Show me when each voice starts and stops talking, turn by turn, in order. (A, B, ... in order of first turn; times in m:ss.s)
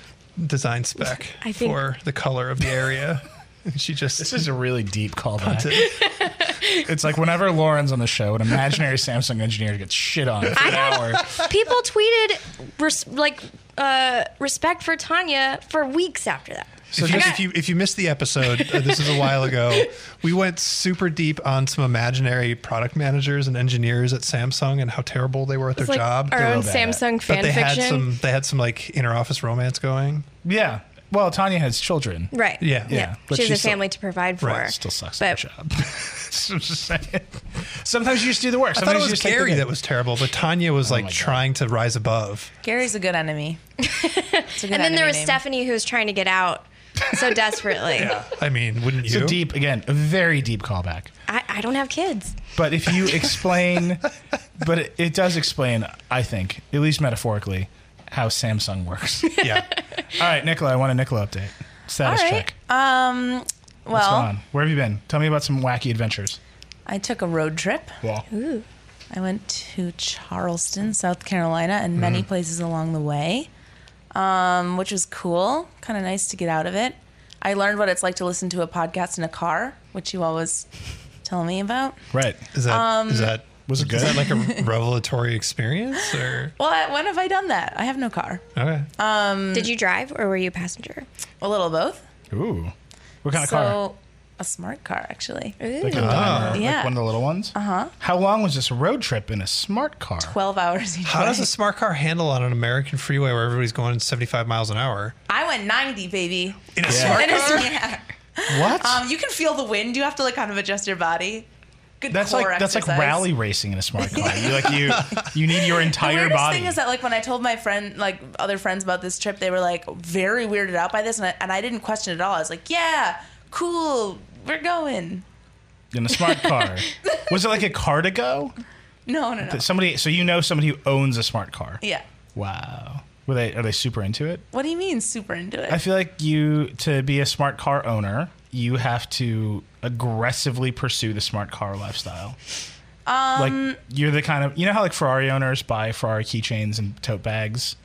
0:00.4-0:04.5 A
0:01.4-0:01.8 B
0:04.2-0:05.9 C
0:05.4-0:06.1 A
0:05.7-0:06.9 B
0:06.8-0:11.4 C
0:10.6-0:17.4 B
0:16.9-0:17.4 C
0:16.9-0:26.7 A
0:18.5-0:19.9 B
0:25.8-0:28.1 B
0:26.3-0:27.0 C
0:27.2-0:30.3 A
0:30.4-0:33.8 C
0:32.3-0:35.4 B
0:32.6-0:33.0 A
0:34.4-0:34.7 A
0:34.6-0:39.7 C
0:38.7-0:42.5 A
0:40.8-0:41.4 C
0:42.6-0:43.6 D
0:43.8-0:48.2 B
0:44.5-0:45.4 D
0:47.9-0:49.4 A
0:49.0-0:51.1 C
0:51.3-0:52.4 B
0:52.6-0:54.1 C
0:54.6-0:59.5 C
0:59.3-0:59.6 B
0:59.4-0:59.7 A
1:00.1-1:02.5 C
1:02.0-1:04.3 D
1:03.9-1:06.4 C
1:06.9-1:07.9 D
1:08.3-1:08.6 B
1:09.1-1:13.5 D
1:12.0-1:12.2 A
1:14.1-1:20.7 D
1:21.2-1:22.0 D
1:22.1-1:22.4 C
1:22.5-1:26.5 A
1:22.7-1:23.4 D
1:23.7-1:24.2 C
1:24.1-1:24.6 D
1:26.0-1:28.4 D
1:28.6-1:28.9 A
1:29.0-1:29.7 D
1:29.5-1:31.1 B
1:31.4-1:32.0 D
1:32.3-1:32.7 C
1:33.2-1:33.8 C
1:33.3-1:35.6 D
1:35.6-1:36.6 B
1:35.8-1:40.4 C
1:35.9-1:36.6 A
1:36.2-1:37.0 D
1:37.5-1:37.9 D
1:40.2-1:41.5 D
1:41.1-1:45.2 A
1:45.3-1:51.5 D
1:46.8-1:47.8 A
1:46.8-1:47.3 C
1:47.4-1:47.8 B
1:48.5-1:49.0 C
1:52.0-1:53.2 D
1:52.1-1:56.8 C
1:54.2-1:55.0 D
1:55.6-2:05.2 D
2:05.9-2:08.5 C
2:09.1-2:09.7 D
2:09.4-2:11.8 C
2:12.4-2:14.4 C
2:14.5-2:15.8 D
2:15.7-2:22.4 C
2:23.1-2:23.8 D
2:23.4-2:27.8 C